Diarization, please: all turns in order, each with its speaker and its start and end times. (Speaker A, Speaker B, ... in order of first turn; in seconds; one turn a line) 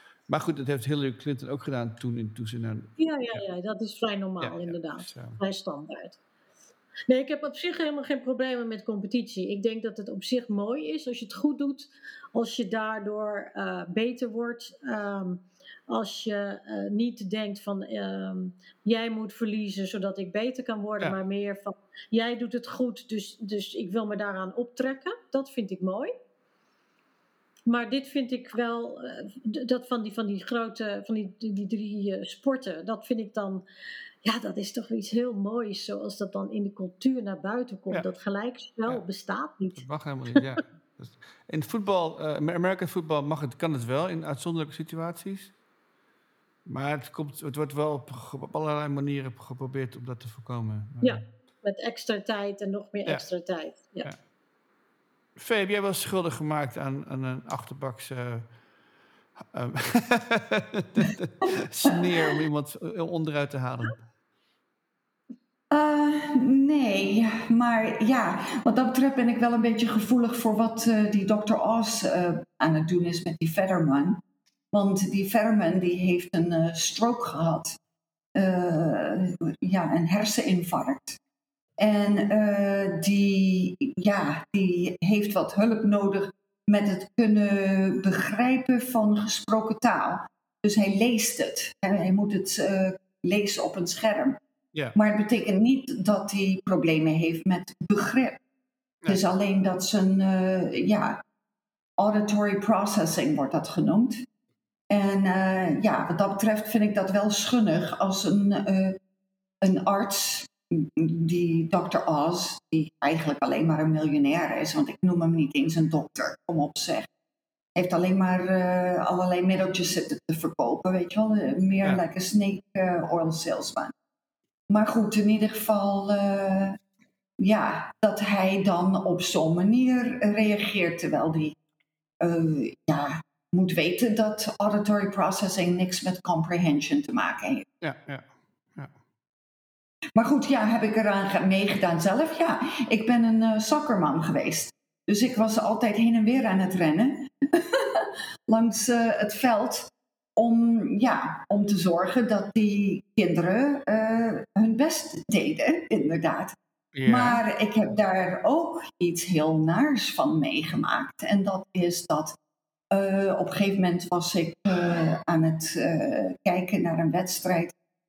Speaker A: 0.3-3.4
Speaker B: 3.0-6.2
Speaker A: 4.4-5.4
Speaker B: 7.1-26.1
Speaker B: 27.7-33.6
Speaker B: 34.2-39.8
Speaker A: 39.8-45.5
Speaker A: 46.6-51.2
Speaker B: 51.0-54.1
Speaker A: 55.4-58.5
Speaker A: 59.5-64.0
Speaker C: 65.7-74.2
Speaker C: 74.7-77.8
Speaker C: 78.3-81.2
Speaker C: 81.8-94.4
Speaker C: 94.9-98.4
Speaker C: 99.1-101.2
Speaker C: 102.0-104.2
Speaker C: 104.9-109.0
Speaker C: 109.6-117.1
Speaker C: 117.8-123.9
Speaker C: 124.7-126.8
Speaker C: 127.4-131.5
Speaker C: 132.2-137.7
Speaker A: 137.8-138.9
Speaker C: 140.1-156.6
Speaker A: 156.9-157.4
Speaker C: 157.1-162.3
Speaker C: 162.9-167.7